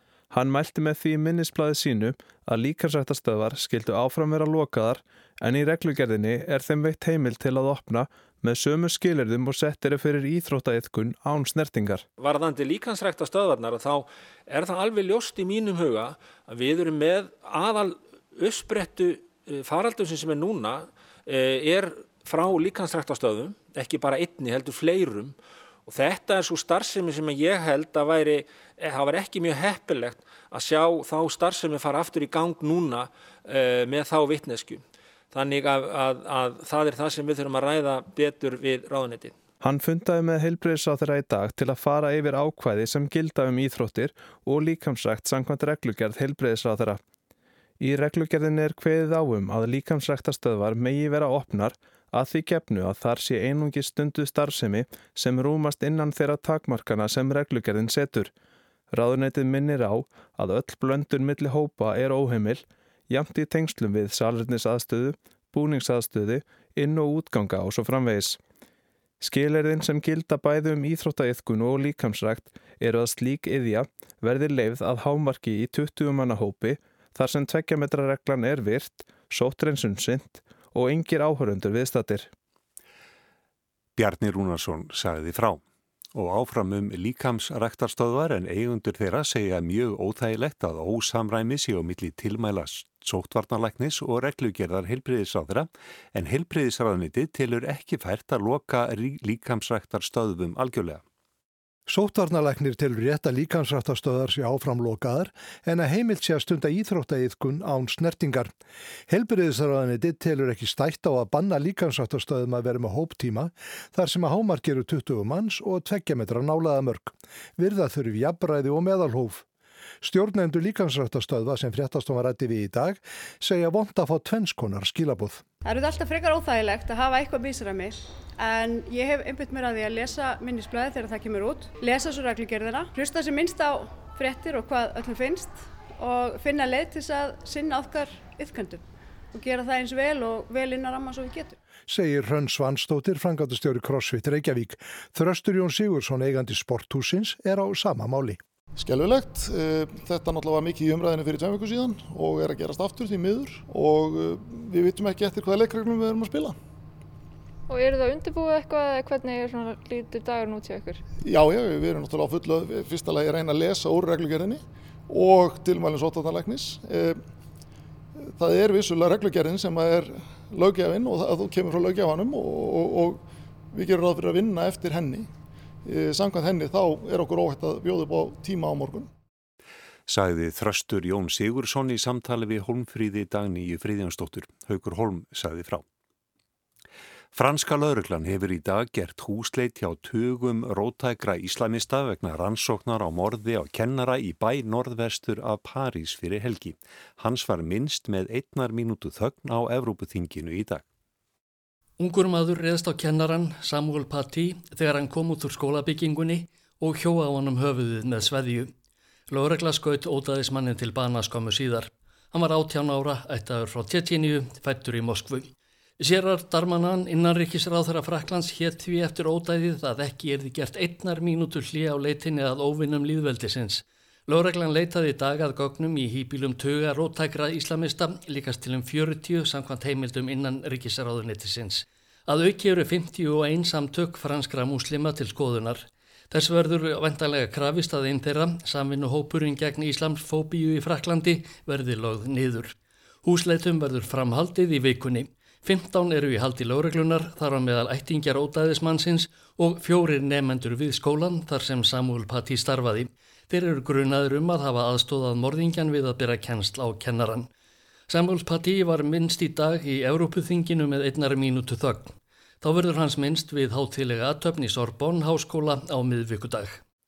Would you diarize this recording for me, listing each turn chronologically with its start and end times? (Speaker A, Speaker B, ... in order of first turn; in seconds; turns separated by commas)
Speaker A: 0.3-12.0, Speaker B: 12.2-39.4, Speaker A: 39.6-47.0, Speaker A: 47.8-58.3, Speaker A: 58.9-68.4, Speaker A: 69.2-82.3, Speaker C: 84.0-85.6, Speaker C: 86.1-101.0, Speaker D: 101.9-108.5, Speaker D: 109.1-119.4, Speaker D: 120.0-125.4, Speaker E: 125.6-141.6, Speaker D: 141.9-148.4, Speaker F: 148.8-156.6, Speaker G: 157.7-161.0, Speaker F: 161.2-167.2, Speaker F: 168.4-175.3, Speaker F: 175.8-179.1, Speaker C: 180.1-185.8, Speaker C: 187.3-200.8, Speaker H: 202.0-208.7, Speaker H: 209.3-257.5, Speaker H: 258.1-266.8